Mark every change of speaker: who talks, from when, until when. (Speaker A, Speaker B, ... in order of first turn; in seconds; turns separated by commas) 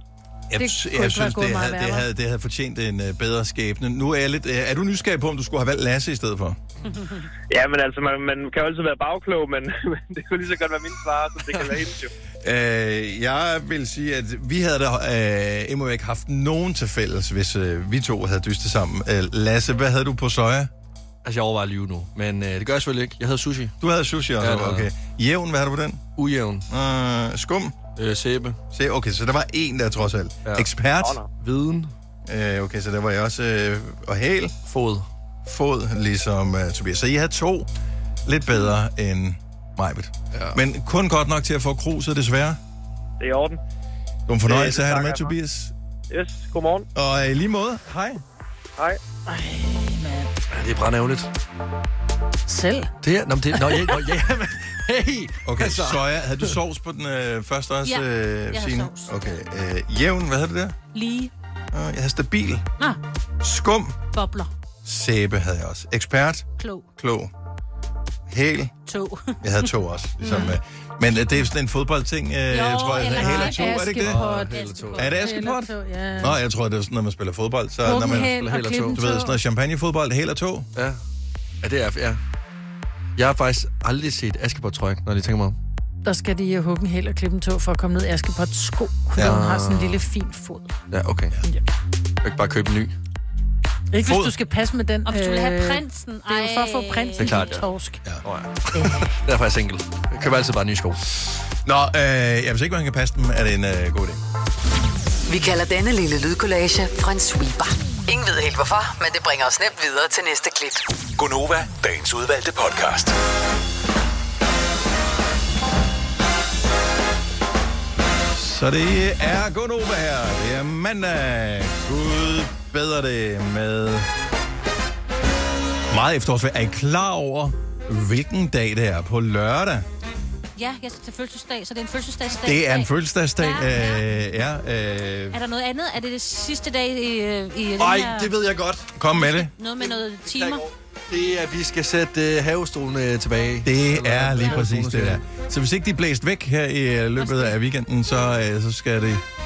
Speaker A: 0.5-6.6, Speaker B: 0.6-2.1, Speaker C: 7.5-12.1, Speaker A: 12.4-20.7, Speaker D: 21.2-23.7, Speaker A: 23.8-26.0, Speaker D: 24.4-24.9, Speaker D: 26.2-26.7, Speaker A: 26.7-27.7, Speaker D: 27.9-28.6, Speaker A: 28.7-31.2, Speaker C: 31.0-31.3, Speaker D: 31.4-31.9, Speaker A: 32.3-34.6, Speaker D: 34.7-35.0, Speaker A: 35.4-37.7, Speaker A: 38.2-42.6, Speaker D: 40.3-40.6, Speaker C: 43.2-43.6, Speaker A: 44.3-45.7, Speaker C: 44.4-45.3, Speaker C: 46.1-46.9, Speaker A: 46.9-48.2, Speaker B: 49.3-50.3, Speaker D: 50.5-51.3, Speaker B: 52.5-52.9, Speaker D: 53.0-56.5, Speaker A: 55.4-60.8, Speaker E: 57.8-59.4, Speaker E: 60.9-61.3, Speaker A: 61.7-62.6, Speaker A: 63.4-64.0, Speaker E: 64.1-64.5, Speaker A: 64.8-67.3, Speaker E: 66.6-66.9, Speaker A: 68.3-68.7, Speaker E: 68.9-69.7, Speaker A: 69.4-74.2, Speaker B: 70.2-70.5, Speaker E: 72.5-75.2, Speaker B: 73.1-76.4, Speaker D: 74.0-75.2, Speaker A: 75.0-80.7, Speaker B: 77.8-79.4, Speaker D: 78.0-79.0, Speaker D: 80.7-81.0, Speaker D: 81.6-82.2, Speaker D: 83.2-85.6, Speaker B: 86.0-90.7, Speaker D: 89.2-90.0, Speaker D: 90.9-91.4, Speaker D: 92.2-92.9, Speaker B: 93.9-98.0, Speaker A: 94.0-94.3, Speaker E: 95.0-97.6, Speaker D: 97.2-97.7, Speaker D: 98.2-101.0, Speaker B: 98.7-99.1, Speaker A: 101.6-104.2, Speaker F: 105.3-110.8, Speaker G: 111.1-113.1, Speaker A: 118.3-124.1, Speaker A: 125.9-129.8, Speaker E: 130.6-134.0, Speaker A: 132.4-135.4, Speaker E: 135.3-138.3, Speaker D: 137.8-138.8, Speaker A: 138.8-139.5, Speaker E: 139.1-140.6, Speaker D: 140.2-145.2, Speaker A: 143.6-149.2, Speaker E: 147.2-147.6